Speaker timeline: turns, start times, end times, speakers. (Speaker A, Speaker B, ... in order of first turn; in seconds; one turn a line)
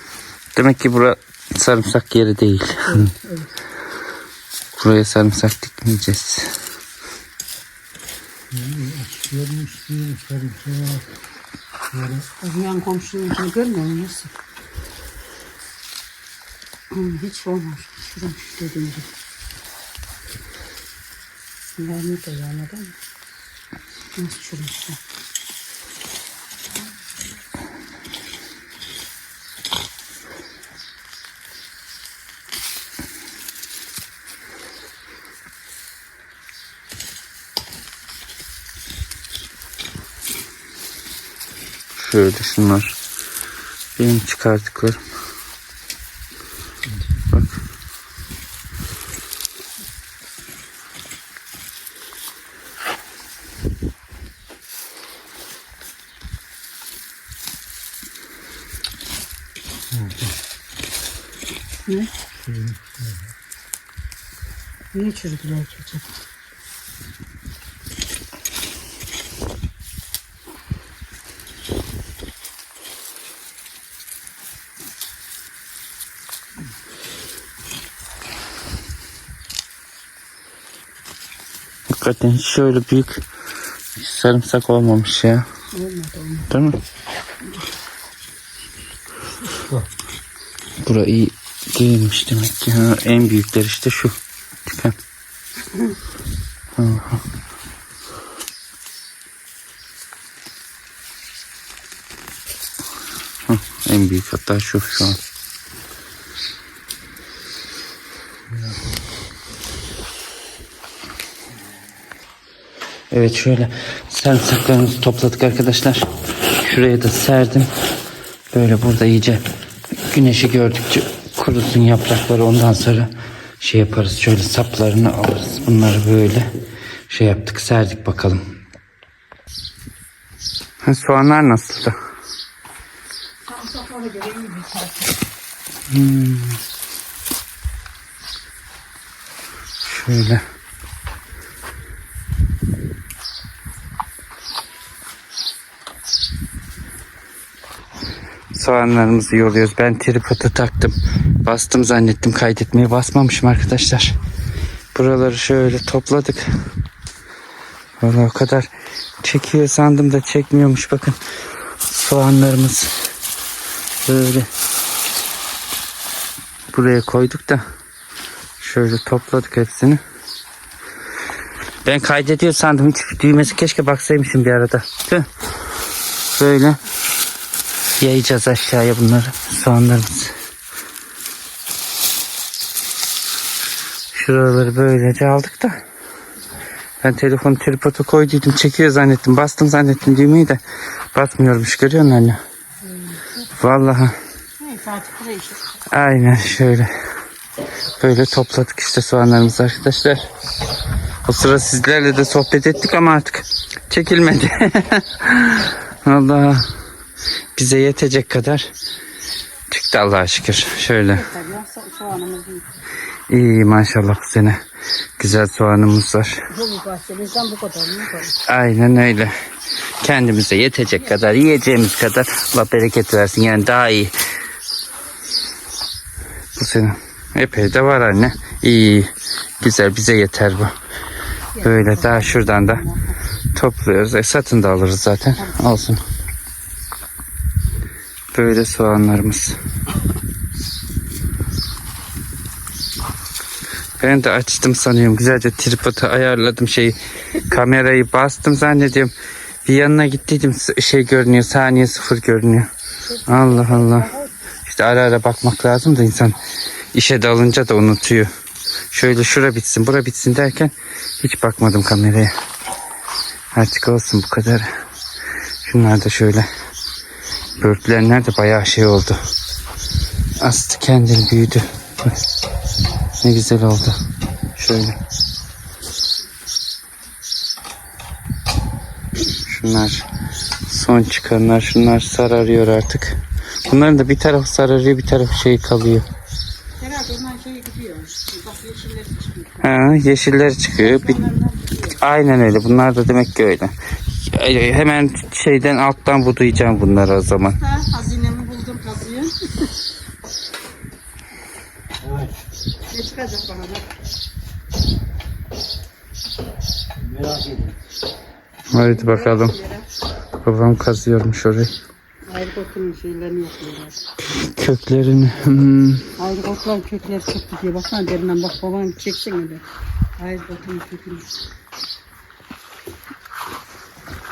Speaker A: 0.6-3.1
Speaker B: 2.8-3.5
Speaker A: 4.7-6.6
Speaker C: 8.5-11.1
Speaker C: 11.9-12.3
Speaker B: 12.4-14.3
Speaker B: 16.9-19.1
Speaker B: 21.8-23.0
Speaker B: 24.1-25.0
Speaker A: 42.0-43.0
Speaker A: 44.0-45.0
Speaker C: 46.9-47.2
Speaker C: 59.9-60.3
Speaker C: 62.3-63.3
Speaker B: 64.9-66.1
Speaker A: 81.9-83.2
Speaker A: 84.0-85.5
Speaker B: 85.7-86.5
Speaker A: 86.5-86.8
Speaker C: 89.5-89.9
Speaker A: 90.8-95.0
Speaker A: 96.8-97.2
Speaker A: 103.5-105.2
Speaker C: 108.5-108.9
Speaker A: 113.1-116.1
Speaker A: 116.6-117.7
Speaker A: 118.5-119.4
Speaker A: 120.1-126.5
Speaker A: 127.1-128.5
Speaker A: 130.8-132.0
Speaker B: 133.4-135.2
Speaker A: 135.9-136.6
Speaker A: 139.8-140.4
Speaker A: 148.5-154.1
Speaker A: 154.9-156.5
Speaker A: 158.0-161.2
Speaker A: 161.8-162.9
Speaker A: 164.0-164.5
Speaker A: 166.7-167.6
Speaker A: 168.6-170.0
Speaker A: 171.8-175.3
Speaker A: 176.3-176.8
Speaker A: 178.0-180.3
Speaker A: 184.1-185.8
Speaker A: 187.0-190.6
Speaker A: 191.1-192.4
Speaker B: 192.8-193.5
Speaker A: 193.6-194.2
Speaker B: 194.6-195.7
Speaker A: 195.9-196.9
Speaker A: 198.0-200.2
Speaker A: 201.2-206.8
Speaker A: 207.6-208.7
Speaker A: 209.7-211.2
Speaker B: 211.1-212.7
Speaker A: 213.3-214.6
Speaker A: 215.2-216.4
Speaker B: 216.5-218.4
Speaker A: 218.5-219.3
Speaker A: 220.0-224.1
Speaker A: 226.6-229.1
Speaker A: 229.6-230.8
Speaker B: 231.5-233.2
Speaker A: 231.6-232.8
Speaker A: 233.5-236.0
Speaker B: 235.3-235.6
Speaker A: 238.3-239.6
Speaker A: 244.0-249.1
Speaker A: 249.6-252.7
Speaker B: 253.0-254.3
Speaker A: 253.3-254.1
Speaker A: 254.7-256.4
Speaker A: 256.9-258.3
Speaker A: 258.9-262.3
Speaker A: 263.5-264.7
Speaker A: 265.6-266.5
Speaker A: 267.6-269.2
Speaker A: 270.4-272.2
Speaker A: 273.2-274.0
Speaker A: 274.6-275.0
Speaker A: 279.4-280.1
Speaker A: 280.7-286.1
Speaker B: 286.8-289.7
Speaker A: 289.6-291.2
Speaker B: 290.8-292.0
Speaker A: 292.0-297.6
Speaker B: 297.4-299.7
Speaker C: 302.0-302.4
Speaker B: 302.9-303.9
Speaker C: 307.0-307.8
Speaker A: 308.7-309.5
Speaker B: 308.8-309.9
Speaker A: 310.4-311.7
Speaker B: 312.3-314.0
Speaker A: 314.3-316.1
Speaker B: 316.2-319.6
Speaker B: 320.2-321.3